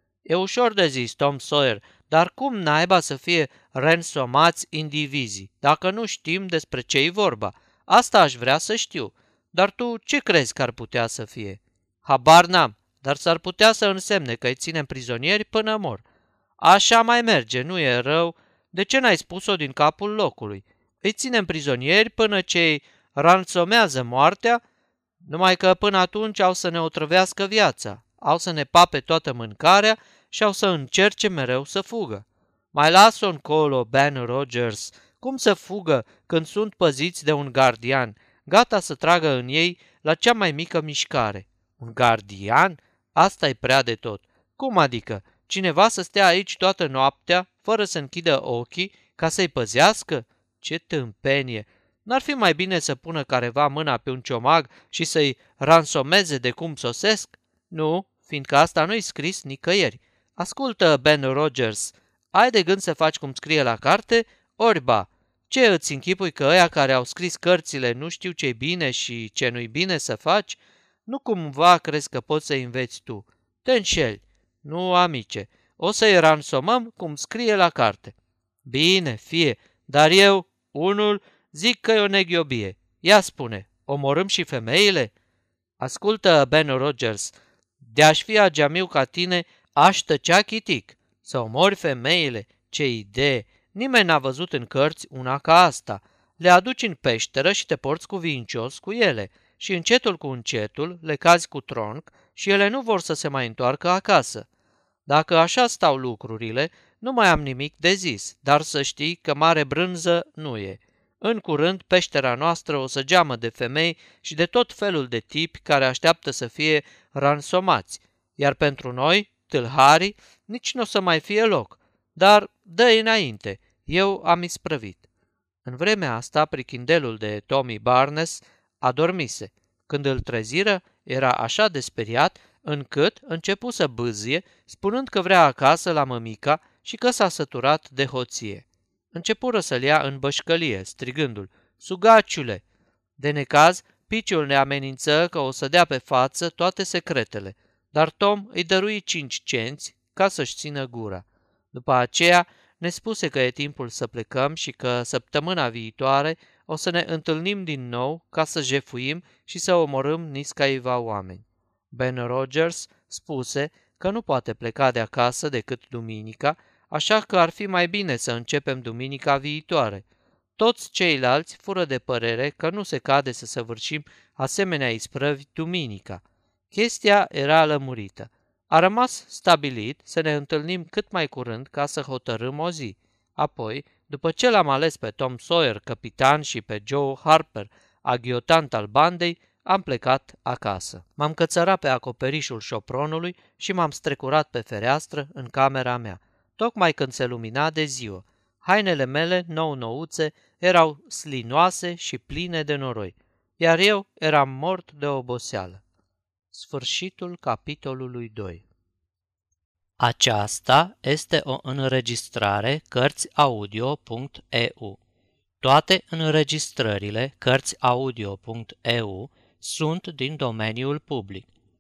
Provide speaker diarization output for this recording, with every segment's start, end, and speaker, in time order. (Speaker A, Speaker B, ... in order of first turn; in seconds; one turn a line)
Speaker A: 0.3-16.0
Speaker A: 16.6-24.6
Speaker A: 25.2-78.2
Speaker A: 78.7-85.1
Speaker A: 85.8-104.5
Speaker A: 105.1-125.0
Speaker A: 125.7-142.6
Speaker A: 143.2-170.1
Speaker A: 170.6-205.8
Speaker A: 206.5-208.6
Speaker A: 210.0-215.0
Speaker A: 215.6-221.5